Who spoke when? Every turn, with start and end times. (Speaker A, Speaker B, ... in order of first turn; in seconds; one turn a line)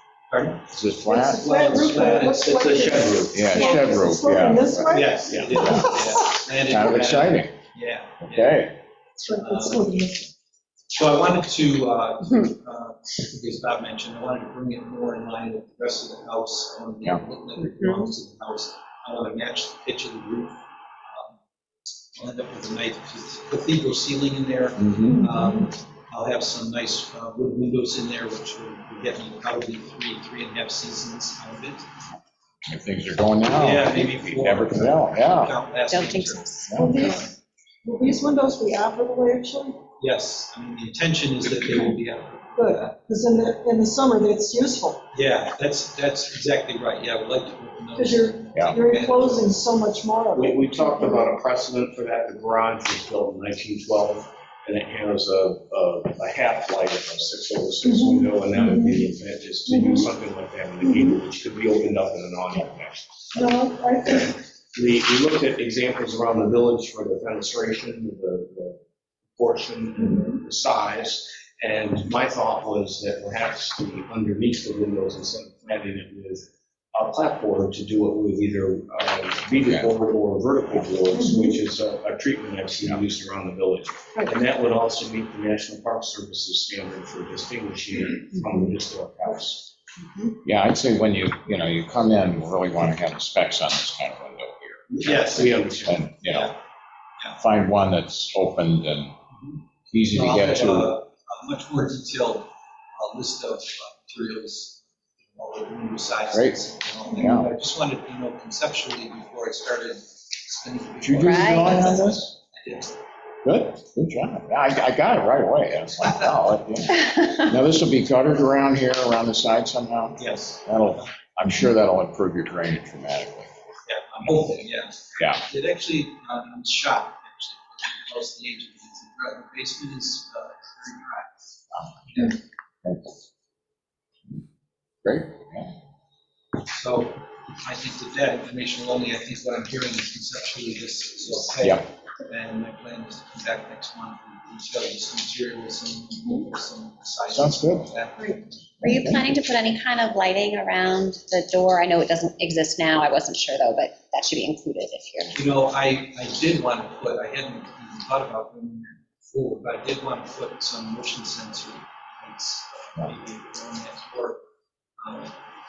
Speaker A: 0.3-0.6
Speaker B: 0.7-1.5
Speaker C: 1.0-6.0
Speaker A: 1.4-3.8
Speaker D: 2.5-3.6
Speaker B: 3.3-6.0
Speaker A: 4.9-8.6
Speaker D: 5.3-5.8
Speaker B: 6.6-7.5
Speaker B: 8.2-8.7
Speaker C: 9.2-10.3
Speaker A: 9.3-9.9
Speaker A: 10.9-21.4
Speaker A: 22.1-31.9
Speaker B: 24.8-25.4
Speaker B: 32.7-35.5
Speaker A: 33.5-37.3
Speaker E: 35.9-37.2
Speaker B: 36.7-37.0
Speaker C: 36.8-37.2
Speaker C: 37.8-39.8
Speaker A: 40.0-43.0
Speaker C: 42.6-45.0
Speaker A: 45.1-49.5
Speaker C: 48.0-51.3
Speaker B: 48.5-48.8
Speaker D: 50.3-63.0
Speaker C: 57.8-59.1
Speaker C: 59.7-60.1
Speaker C: 60.8-61.2
Speaker C: 63.3-64.3
Speaker D: 64.1-68.8
Speaker D: 69.4-89.7
Speaker C: 70.0-70.3
Speaker B: 79.6-79.9
Speaker C: 81.1-81.6
Speaker B: 90.5-96.5
Speaker D: 94.9-96.0
Speaker A: 95.0-95.6
Speaker A: 96.3-96.5
Speaker B: 97.4-99.2
Speaker B: 99.9-100.9
Speaker A: 100.1-112.9
Speaker B: 106.3-106.6
Speaker B: 107.1-107.5
Speaker B: 111.0-112.4
Speaker E: 111.2-112.0
Speaker B: 113.4-123.5
Speaker A: 116.0-116.4
Speaker A: 120.2-121.1
Speaker A: 123.9-131.3
Speaker B: 125.2-125.4
Speaker B: 131.7-132.3
Speaker A: 132.1-132.4
Speaker B: 132.8-133.2
Speaker B: 135.0-135.7
Speaker A: 136.7-148.7
Speaker B: 147.3-147.9
Speaker E: 148.8-155.3
Speaker A: 155.3-164.4
Speaker A: 165.0-165.3